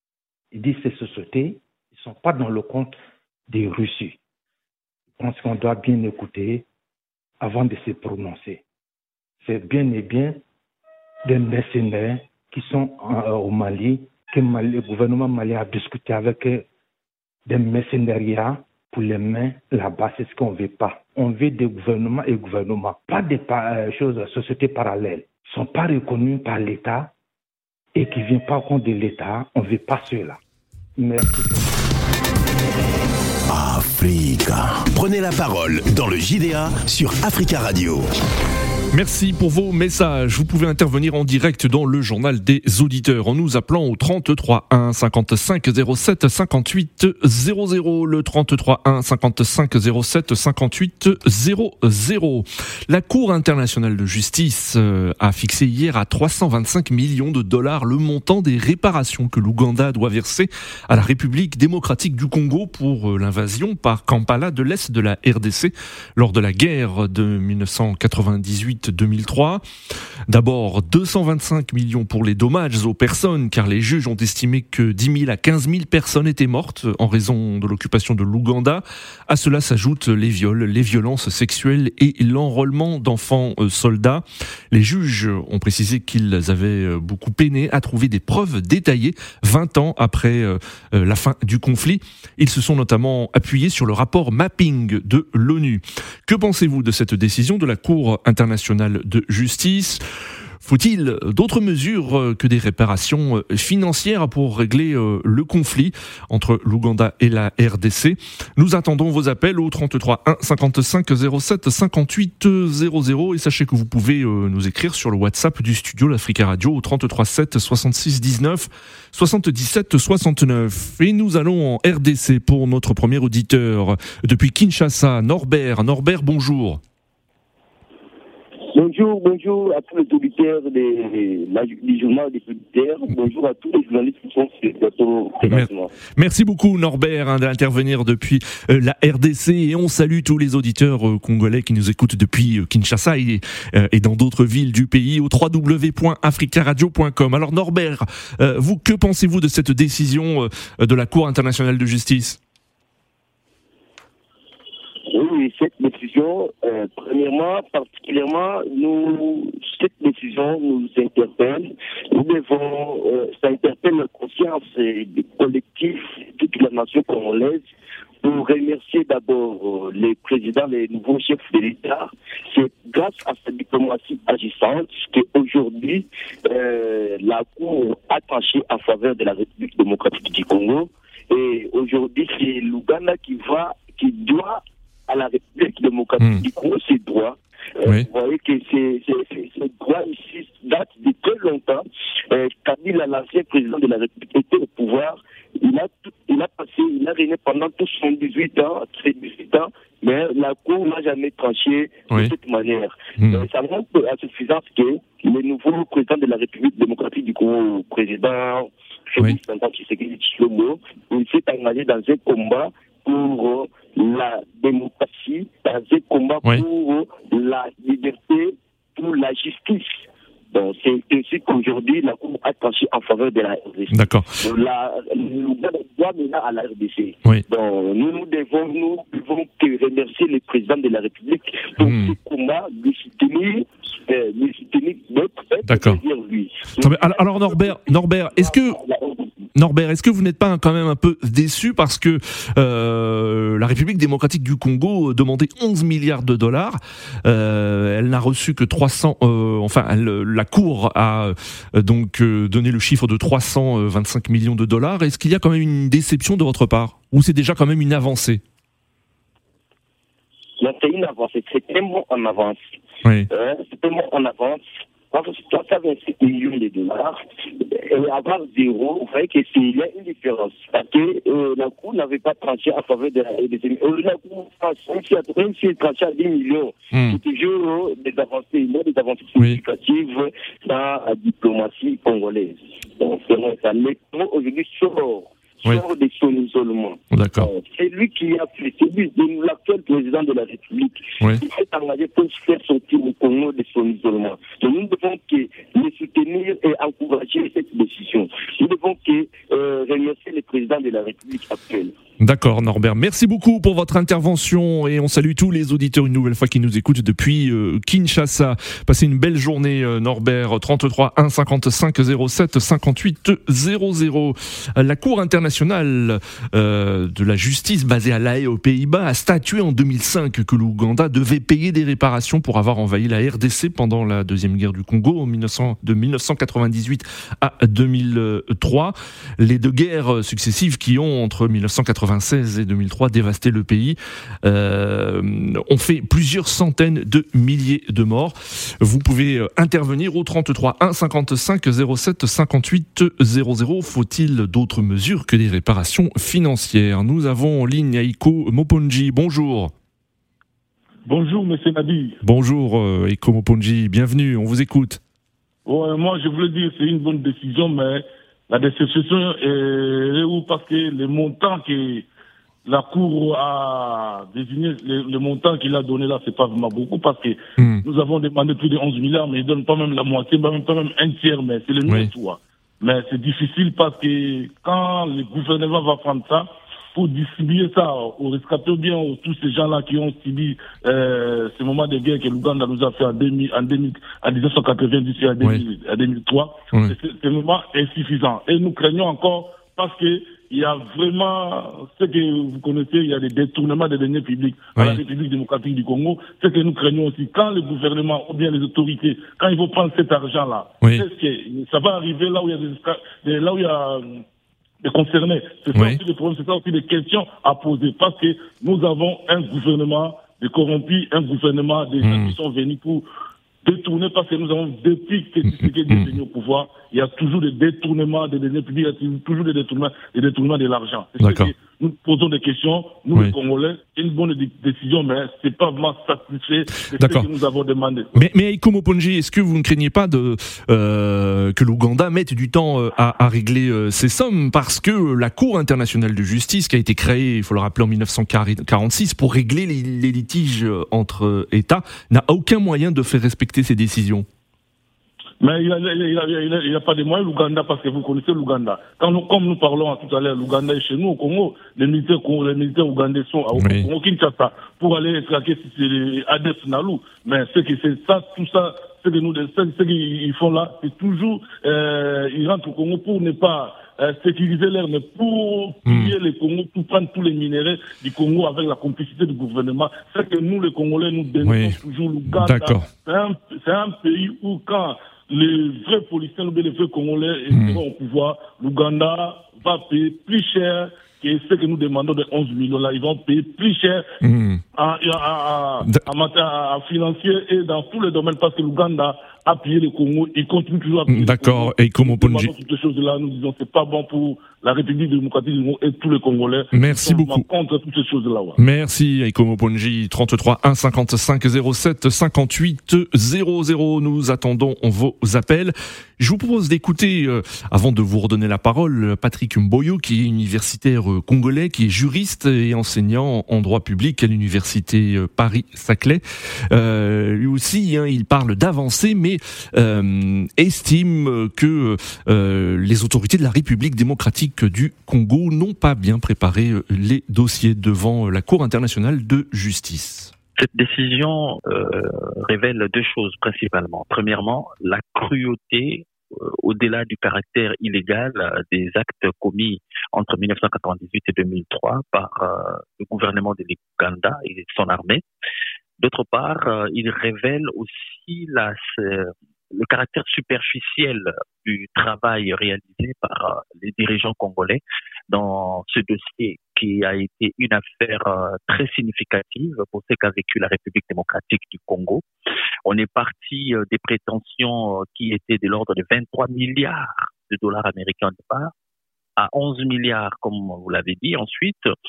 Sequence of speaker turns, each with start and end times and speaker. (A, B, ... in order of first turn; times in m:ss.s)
0:00.5-0:03.0 A
0:03.5-0:04.2 A
0:05.2-0:06.7 A
0:07.4-0:08.6 A
0:09.4-0:10.4 A
0:11.2-0:16.7 A
0:17.5-0:27.1 A
0:27.9-0:30.4 A
0:31.0-0:31.7 A
0:33.5-0:38.1 B
0:38.9-1:09.6 C
1:10.3-1:40.0 C
1:40.6-2:06.8 C
2:08.7-2:15.9 D
2:15.4-2:32.4 C
2:35.1-2:47.7 D
2:48.2-3:59.4 D
3:06.2-3:06.4 C
3:23.2-3:23.5 C
3:43.9-3:44.4 C
3:51.8-3:52.1 C
3:55.6-3:56.0 C
3:56.8-3:58.8 C
3:59.6-4:18.4 C
4:20.6-4:22.6 D
4:23.3-5:02.0 D
4:36.9-4:37.2 C
4:47.1-4:47.5 C
5:02.2-5:49.7 C
5:51.1-5:52.2 E
5:52.2-5:55.0 C
5:55.7-6:02.1 E
6:02.6-6:44.2 E
6:07.6-6:07.8 C
6:11.9-6:12.1 C
6:34.8-6:35.0 C
6:44.8-6:53.0 E
6:45.7-6:46.0 C
6:52.0-6:52.4 C
6:53.6-7:08.2 E
6:55.5-6:56.1 C
7:01.2-7:01.5 C
7:07.0-7:07.3 C
7:08.2-7:24.3 C
7:25.4-8:04.1 E
7:33.5-7:33.9 C
7:45.9-7:46.2 C
7:51.4-7:51.8 C
7:52.3-7:52.9 C
7:57.5-7:57.8 C
8:04.2-8:04.6 C
8:04.8-8:18.6 E
8:11.1-8:12.5 C
8:16.7-8:17.5 C
8:18.6-8:50.3 C
8:50.6-9:05.2 F
9:06.0-9:22.2 F
9:22.9-9:28.7 F
9:29.4-9:31.9 F